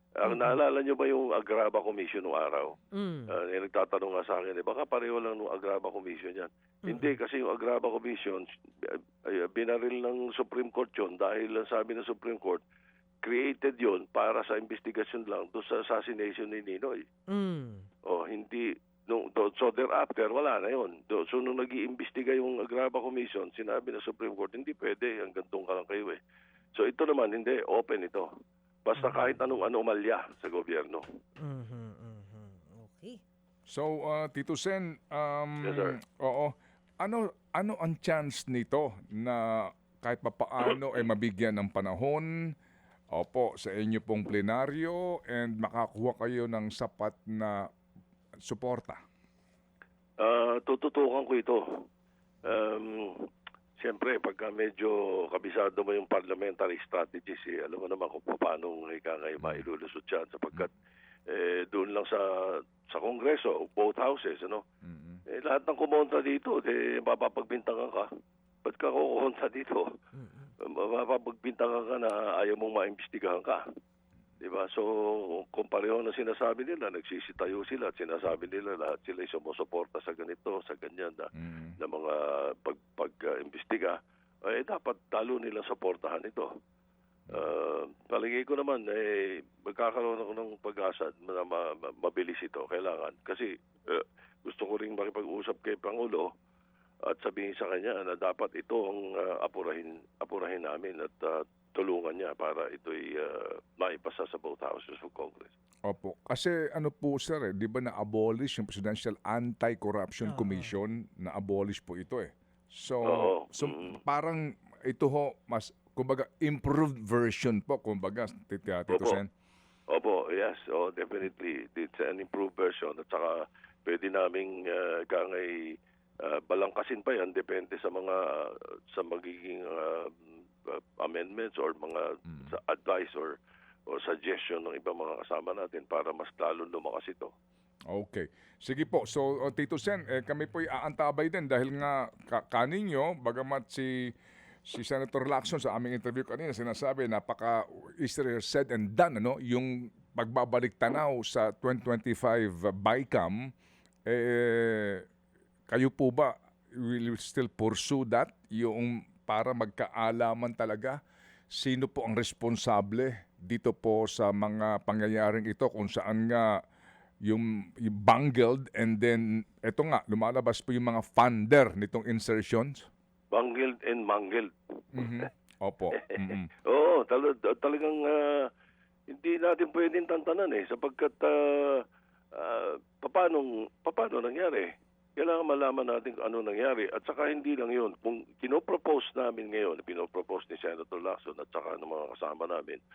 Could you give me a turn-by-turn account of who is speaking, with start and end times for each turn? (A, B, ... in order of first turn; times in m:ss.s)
0:00.2-0:02.8 A
0:00.2-0:00.6 B
0:02.9-0:03.3 B
0:03.3-0:12.6 A
0:06.9-0:07.2 B
0:13.2-0:17.0 A
0:17.3-0:17.9 B
0:18.1-0:26.2 A
0:26.8-0:28.3 A
0:28.9-0:31.0 A
0:29.0-0:29.4 B
0:31.4-0:33.2 B
0:33.7-0:42.3 C
0:35.6-0:36.0 A
0:43.1-0:47.6 C
0:48.5-0:49.0 C
0:50.2-0:51.9 A
0:52.4-0:53.3 A
0:53.8-1:00.7 A
0:59.4-0:59.7 C
1:01.3-1:04.6 A
1:04.8-1:05.2 C
1:05.3-1:08.1 A
1:08.6-1:09.9 A
1:10.2-1:10.4 B
1:10.6-1:13.6 A
1:14.4-1:26.5 A
1:21.4-1:21.8 C
1:27.3-1:36.3 A
1:37.1-1:45.5 A
1:45.9-1:59.3 C
1:50.3-1:50.7 B
1:53.1-1:54.0 A
1:58.9-1:59.2 A
1:59.9-2:13.4 A
2:13.9-2:17.3 A
2:17.9-2:24.1 C
2:24.7-2:33.4 C
2:34.1-2:35.0 C
2:35.7-2:41.0 C
2:41.5-2:46.5 C
2:47.3-2:52.9 C
2:53.3-2:55.3 A
2:54.9-2:56.5 C
2:56.1-2:58.5 A
2:59.1-3:12.8 A